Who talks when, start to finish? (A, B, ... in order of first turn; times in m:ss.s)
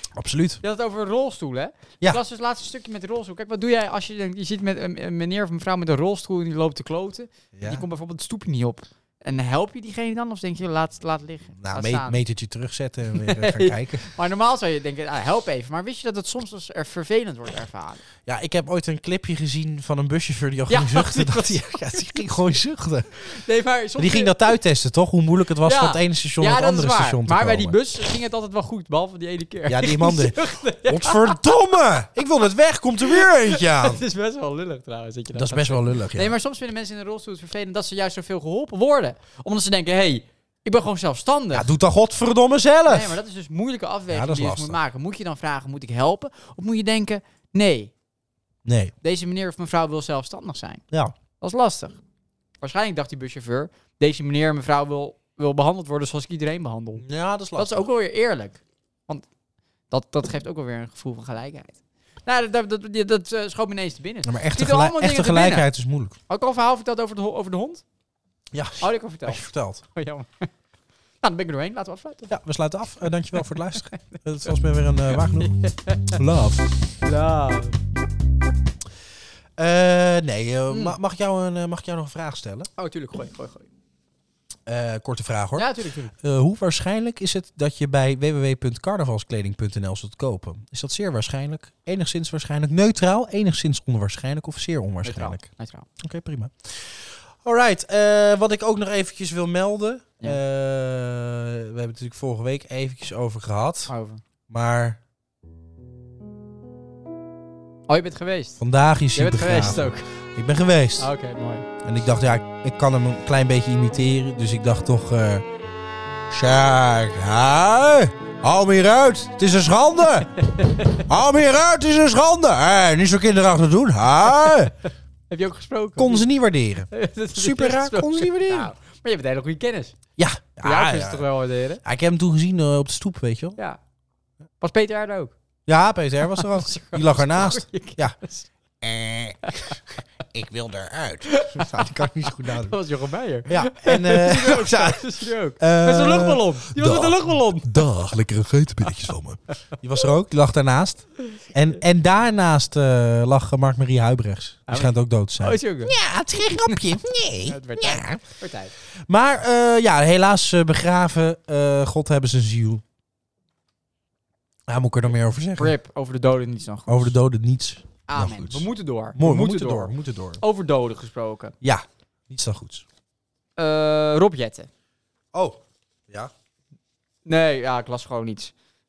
0:00.1-0:00.6 A
0:00.6-0:12.2 B
0:07.6-0:07.8 A
0:11.6-0:14.1 A
0:13.2-0:18.0 B
0:18.3-0:23.1 A
0:20.7-0:22.3 B
0:23.2-0:24.5 B
0:24.0-0:27.8 A
0:25.6-0:31.6 B
0:29.7-0:34.0 A
0:33.0-0:41.7 B
0:35.3-0:36.4 A
0:41.5-0:43.2 A
0:42.9-0:47.9 B
0:44.1-0:44.8 A
0:48.6-0:48.9 A
0:49.0-0:50.8 B
0:51.4-0:52.0 B
0:52.6-0:59.2 B
0:57.0-0:57.9 A
0:59.9-1:05.7 B
1:04.2-1:06.2 A
1:06.3-1:07.8 B
1:08.5-1:09.8 A
1:08.8-1:10.5 B
1:11.2-1:12.3 B
1:12.3-1:15.6 A
1:13.4-1:14.2 B
1:15.4-1:16.2 B
1:16.1-1:16.6 A
1:17.0-1:17.8 B
1:19.6-1:22.7 A
1:20.7-1:21.0 B
1:22.8-1:23.7 B
1:24.7-1:35.4 A
1:25.6-1:26.1 B
1:35.0-1:35.9 B
1:36.0-1:43.9 A
1:43.9-1:44.2 B
1:44.5-1:45.0 A
1:47.9-1:48.6 B
1:48.6-1:51.1 A
1:49.1-1:50.1 B
1:51.0-1:51.7 B
1:51.8-1:55.4 A
1:56.3-2:00.3 A
2:00.4-2:01.0 B
2:01.1-2:04.7 A
2:05.3-2:06.3 B
2:06.0-2:08.7 A
2:06.9-2:10.0 B
2:10.2-2:11.3 A
2:10.6-2:11.8 B
2:11.8-2:13.6 A
2:14.6-2:15.3 B
2:15.7-2:18.2 A
2:16.3-2:18.5 B
2:18.8-2:19.8 A
2:19.4-2:19.8 B
2:20.3-2:22.8 A
2:21.3-2:27.8 B
2:23.5-2:38.2 A
2:34.7-2:36.0 B
2:37.4-2:38.7 B
2:39.1-2:42.8 A
2:44.7-2:45.7 A
2:45.6-2:47.2 B
2:46.9-2:50.4 A
2:48.1-2:51.6 B
2:51.6-2:52.8 A
2:53.6-2:54.7 B
2:55.3-2:56.3 A
2:57.2-2:58.5 B